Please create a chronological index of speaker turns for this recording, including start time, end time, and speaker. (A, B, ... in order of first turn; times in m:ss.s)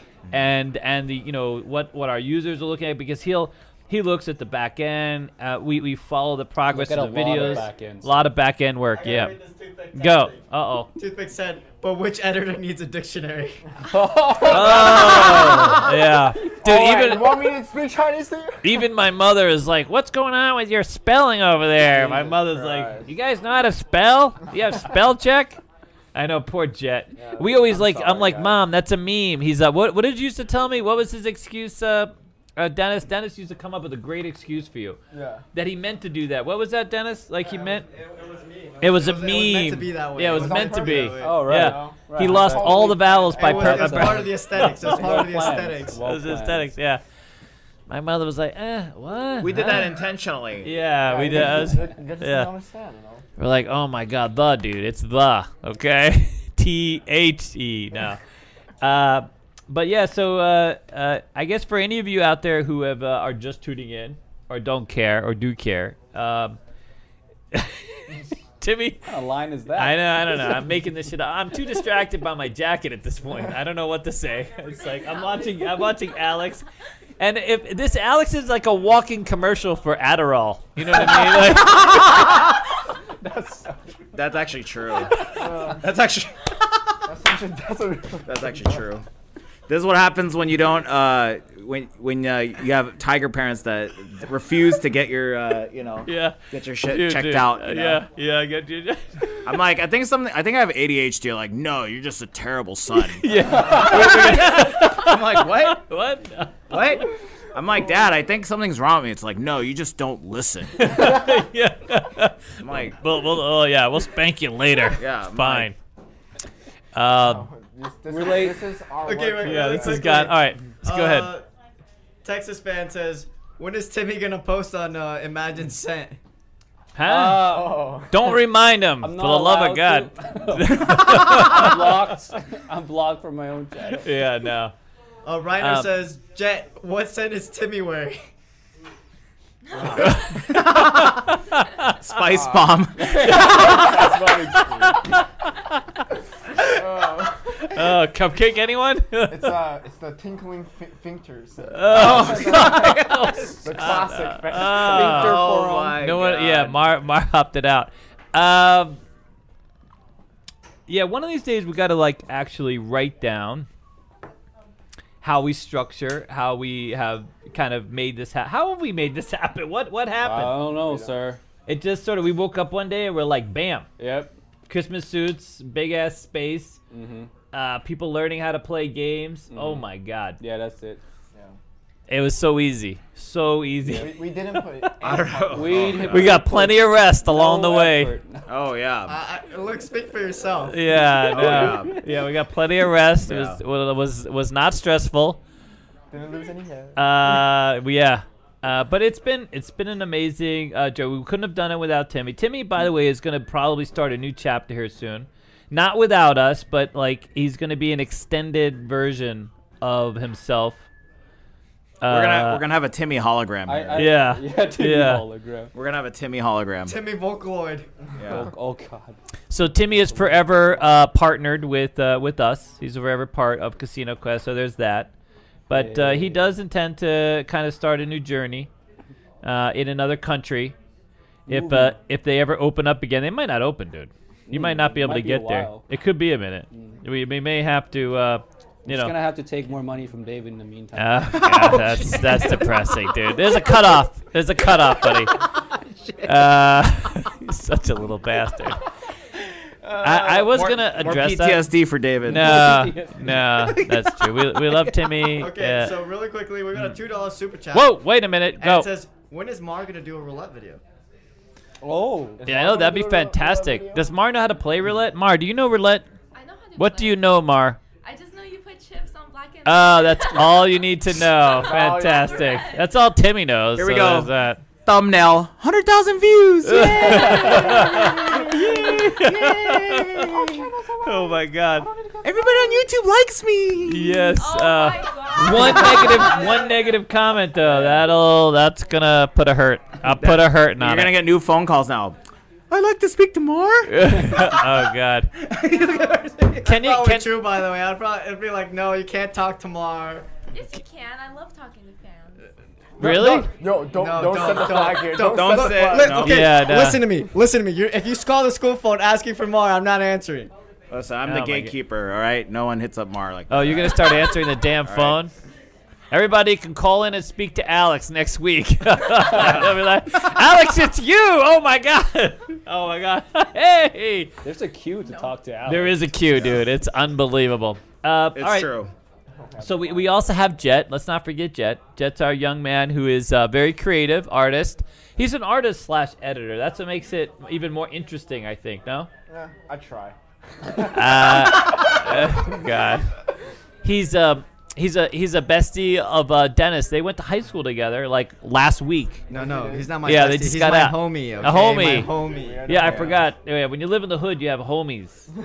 0:00.3-0:09.4 A
0:06.7-0:08.2 B
0:08.9-0:10.4 C
0:09.9-0:10.9 A
0:11.0-0:13.6 D
0:13.9-0:15.9 B
0:14.1-0:15.8 E
0:14.4-0:17.6 A
0:16.6-0:18.6 E
0:16.8-0:17.2 B
0:18.6-0:25.6 A
0:21.8-0:23.1 B
0:26.1-0:35.0 A
0:27.1-0:28.6 E
0:35.1-0:35.4 E
0:35.5-0:37.9 A
0:37.4-0:39.4 C
0:38.8-0:47.0 A
0:39.0-0:41.5 D
0:40.4-0:43.3 E
0:41.2-0:46.7 B
0:43.3-0:46.0 D
0:47.9-0:49.9 A
0:49.4-0:50.7 F
0:50.6-0:52.5 A
0:51.1-0:53.2 E
0:53.4-0:58.2 A
0:58.8-1:06.6 A
1:07.5-1:09.0 A
1:09.0-1:10.8 B
1:09.7-1:16.6 A
1:17.2-1:22.1 A
1:21.0-1:21.8 B
1:23.2-1:23.6 B
1:24.1-1:27.0 F
1:25.3-1:25.8 E
1:27.1-1:28.8 E
1:28.2-1:29.0 F
1:29.7-1:38.0 F
1:36.0-1:39.3 A
1:39.4-1:45.8 F
1:43.2-1:47.0 A
1:43.5-1:44.2 B
1:46.7-1:50.9 F
1:50.8-1:55.8 A
1:52.6-1:53.0 F
1:54.9-1:55.7 F
1:57.0-1:57.5 A
1:57.2-2:00.0 E
1:58.1-1:58.7 B
1:59.0-2:01.4 D
1:59.4-2:01.3 A
2:02.2-2:06.2 D
2:07.0-2:12.1 A
2:07.0-2:08.0 B
2:07.4-2:08.1 E
2:09.0-2:14.2 B
2:14.0-2:14.7 A
2:15.2-2:18.2 D
2:15.6-2:15.9 A
2:20.0-2:21.9 A
2:20.3-2:21.4 F
2:21.9-2:23.7 F
2:22.4-2:22.7 E
2:23.0-2:24.0 B
2:23.2-2:24.3 A
2:23.3-2:25.0 E
2:24.8-2:26.0 A
2:26.7-2:27.8 E
2:27.6-2:29.6 A
2:29.3-2:32.7 E
2:31.7-2:39.0 A
2:31.9-2:33.6 F
2:33.6-2:35.2 E
2:34.5-2:36.0 B
2:35.0-2:36.9 F
2:40.9-2:43.7 A
2:45.2-2:50.7 A
2:50.2-2:51.4 B
2:50.9-2:51.2 E
2:51.7-2:53.9 A
2:54.0-2:54.3 B
2:54.7-2:56.8 A
2:56.9-2:57.3 B
2:57.5-3:00.4 A
2:59.5-2:59.9 B
3:00.4-3:01.0 B
3:02.1-3:04.9 A
3:03.9-3:05.8 E
3:05.0-3:06.4 F
3:05.5-3:08.4 B
3:06.0-3:08.1 A
3:08.5-3:09.2 F
3:09.1-3:10.8 D
3:10.7-3:15.4 A
3:10.9-3:12.0 B
3:11.3-3:12.0 F
3:13.2-3:13.6 F
3:16.1-3:17.0 E
3:17.0-3:30.9 A
3:32.0-3:32.7 A
3:32.1-3:34.1 F
3:33.7-3:35.7 B
3:34.0-3:35.3 A
3:35.7-3:37.0 F
3:36.8-3:37.9 D
3:38.2-3:38.5 F
3:38.2-3:41.0 B
3:39.5-3:45.1 A
3:45.7-3:48.7 A
3:45.7-3:46.6 B
3:49.4-3:50.7 A
3:51.5-3:52.0 B
3:51.5-3:59.2 A
3:54.5-3:55.9 B
3:56.7-3:57.0 B
3:58.8-4:01.8 B
4:01.0-4:05.4 A
4:01.5-4:02.4 F
4:06.2-4:08.8 A
4:10.0-4:11.7 A
4:10.0-4:10.5 E
4:10.4-4:12.9 F
4:12.2-4:16.0 A
4:12.3-4:15.2 B
4:15.4-4:18.0 D
4:17.7-4:18.9 A
4:18.6-4:20.8 D
4:21.8-4:22.5 B
4:22.4-4:24.1 E
4:22.4-4:26.0 A
4:26.3-4:27.2 G
4:26.8-4:27.8 A
4:28.0-4:30.8 G
4:29.6-4:34.6 A
4:31.4-4:32.9 G
4:31.5-4:32.6 E
4:33.7-4:34.3 F
4:34.8-4:37.9 F
4:36.6-4:41.9 A
4:37.1-4:38.5 B
4:39.0-4:39.8 E
4:39.9-4:40.3 F
4:40.4-4:42.2 E
4:42.2-4:44.2 F
4:43.8-4:51.1 A
4:44.3-4:47.0 G
4:50.0-4:52.2 F
4:52.7-4:54.7 F
4:53.9-4:55.3 A
4:55.4-4:56.7 F
4:56.6-4:57.3 A
4:56.7-5:00.3 D
5:00.5-5:02.5 G
5:03.0-5:03.5 A
5:03.0-5:06.2 E
5:03.9-5:10.5 D
5:05.3-5:06.6 F
5:06.2-5:07.1 A
5:10.9-5:14.3 F
5:11.2-5:11.7 A
5:13.5-5:15.3 A
5:14.8-5:15.2 F
5:16.1-5:24.3 A
5:19.3-5:19.7 F
5:24.4-5:26.2 B
5:25.0-5:25.3 G
5:25.7-5:28.8 A
5:28.3-5:28.9 F
5:29.4-5:29.8 E
5:29.6-5:39.1 A
5:39.3-5:40.2 E
5:40.8-5:43.1 A
5:43.8-5:49.2 A
5:49.3-5:50.0 E
5:49.3-5:52.7 D
5:50.0-5:52.1 A
5:52.3-5:53.2 E
5:52.7-5:55.3 A